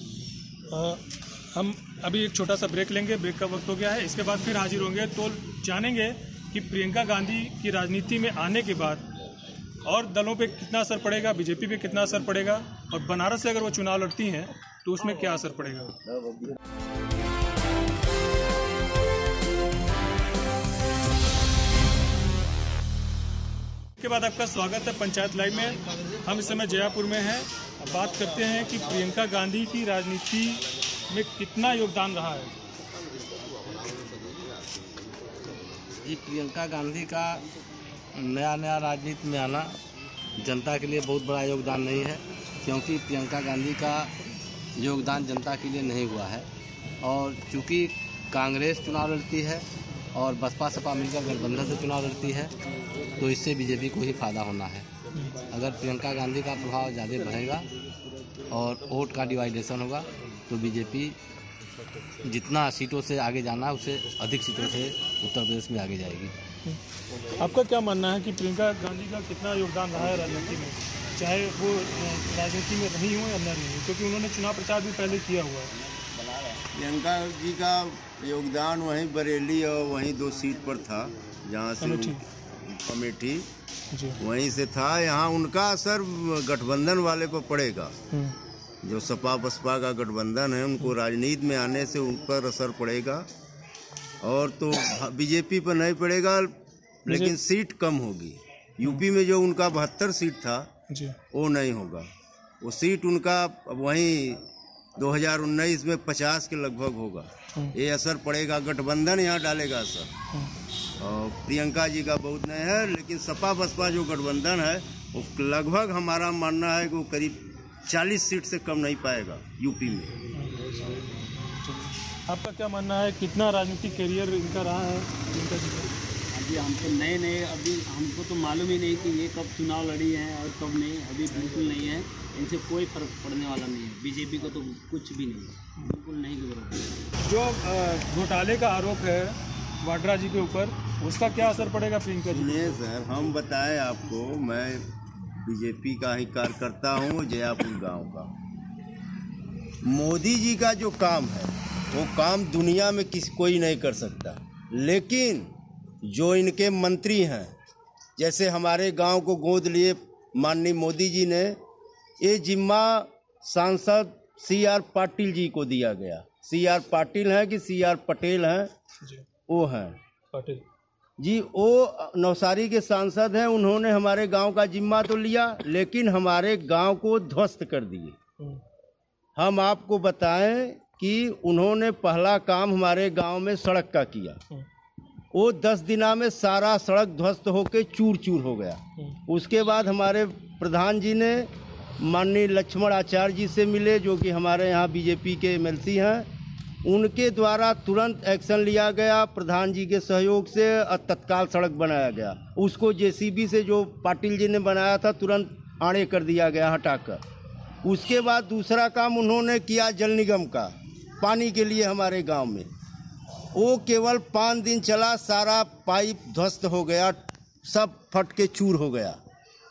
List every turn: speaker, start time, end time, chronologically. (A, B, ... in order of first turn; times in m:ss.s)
0:00.7-0:09.1 A
0:09.8-0:15.9 A
0:24.0-0:32.5 A
0:36.0-0:37.4 B
0:38.2-0:39.8 B
0:40.4-0:44.1 B
0:44.8-0:46.5 B
0:47.0-0:52.5 B
0:53.2-0:54.9 B
0:55.5-0:57.7 B
0:58.5-1:01.2 B
1:02.2-1:06.4 B
1:07.4-1:15.7 A
1:16.7-1:22.2 C
1:21.8-1:22.2 A
1:22.7-1:23.5 C
1:24.2-1:27.9 C
1:28.8-1:33.3 C
1:34.2-1:36.5 C
1:37.0-1:40.7 C
1:37.1-1:37.3 A
1:40.9-1:41.2 A
1:41.3-1:42.1 C
1:42.6-1:44.4 C
1:45.0-1:50.1 C
1:51.0-2:00.2 C
2:00.3-2:05.9 A
2:06.3-2:17.0 D
2:17.2-2:22.8 A
2:22.3-2:24.9 C
2:25.4-2:28.3 C
2:29.8-2:35.5 C
2:36.0-2:37.5 C
2:38.2-2:41.6 C
2:42.2-2:48.7 C
2:49.0-2:49.3 A
2:49.5-2:50.0 C
2:50.3-2:50.6 A
2:51.2-2:58.2 C
2:59.4-3:04.4 C
3:05.3-3:16.3 C
3:16.8-3:27.2 C
3:27.8-3:32.7 C
3:33.5-3:39.2 C